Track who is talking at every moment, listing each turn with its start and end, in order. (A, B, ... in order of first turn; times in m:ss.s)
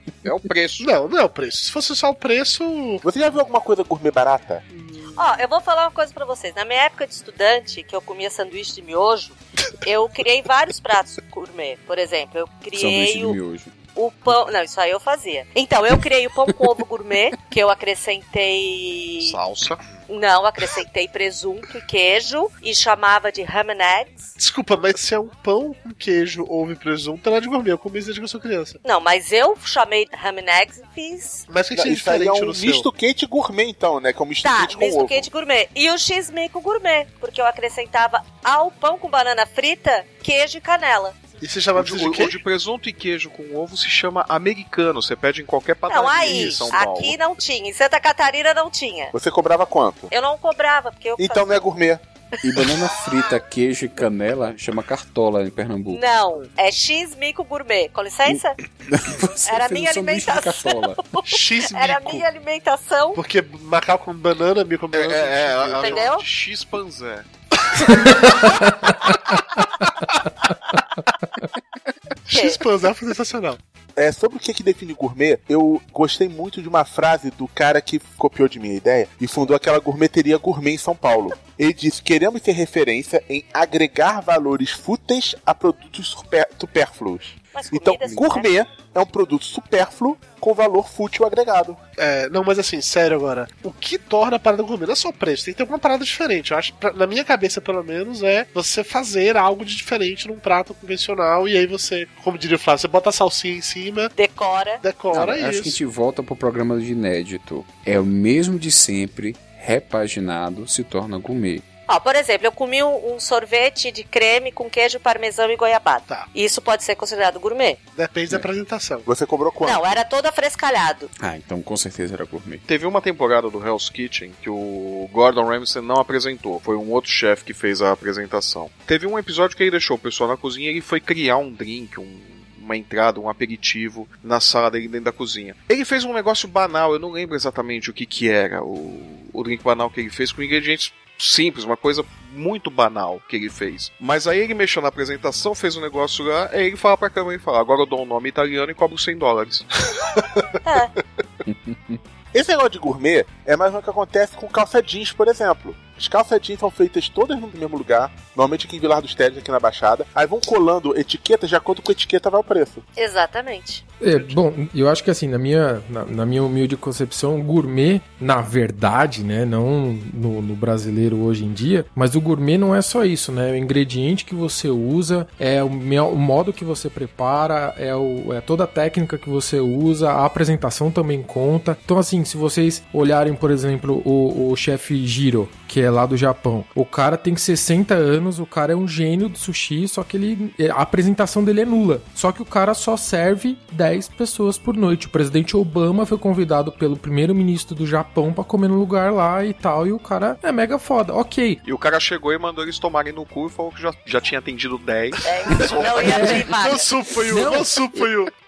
0:00.2-0:00.9 A
0:00.8-0:03.0 B
0:03.0-0:04.6 C
0:04.7-0:05.1 B
0:05.2-0:13.4 D
0:12.7-0:13.8 E
0:14.0-0:19.4 D
0:19.2-0:20.0 A
0:20.1-0:24.3 D
0:24.4-0:28.8 B
0:28.8-0:31.4 D
0:31.5-0:32.9 B
0:31.7-0:35.3 C
0:34.4-0:41.2 D
0:41.4-0:42.4 B
0:41.8-0:47.2 A
0:45.9-0:49.1 D
0:46.2-0:46.8 B
0:49.1-0:50.1 C
0:50.1-0:51.6 D
0:51.2-0:52.0 C
0:52.4-0:56.0 E
0:55.9-0:58.6 D
0:58.3-1:01.0 E
0:59.5-1:03.2 D
1:01.3-1:02.3 B
1:03.2-1:06.1 B
1:04.9-1:07.3 A
1:05.8-1:06.2 D
1:12.3-1:13.6 B
1:12.3-1:12.6 D
1:14.0-1:31.8 C
1:27.5-1:28.5 D
1:32.0-1:44.1 B
1:44.2-1:44.8 D
1:44.8-1:45.8 B
1:45.1-1:51.7 E
1:51.9-1:57.8 D
1:58.0-1:59.1 B
1:59.1-2:00.0 C
1:59.6-2:01.1 D
2:01.2-2:02.6 E
2:02.7-2:29.6 A
2:30.6-2:30.9 D
2:31.5-2:32.0 E
2:32.3-2:42.8 C
2:43.0-2:43.9 D
2:44.0-3:21.6 F
3:21.6-3:26.2 A
3:25.2-3:26.9 D
3:25.5-3:28.3 B
3:26.1-3:26.4 F
3:27.3-3:27.7 F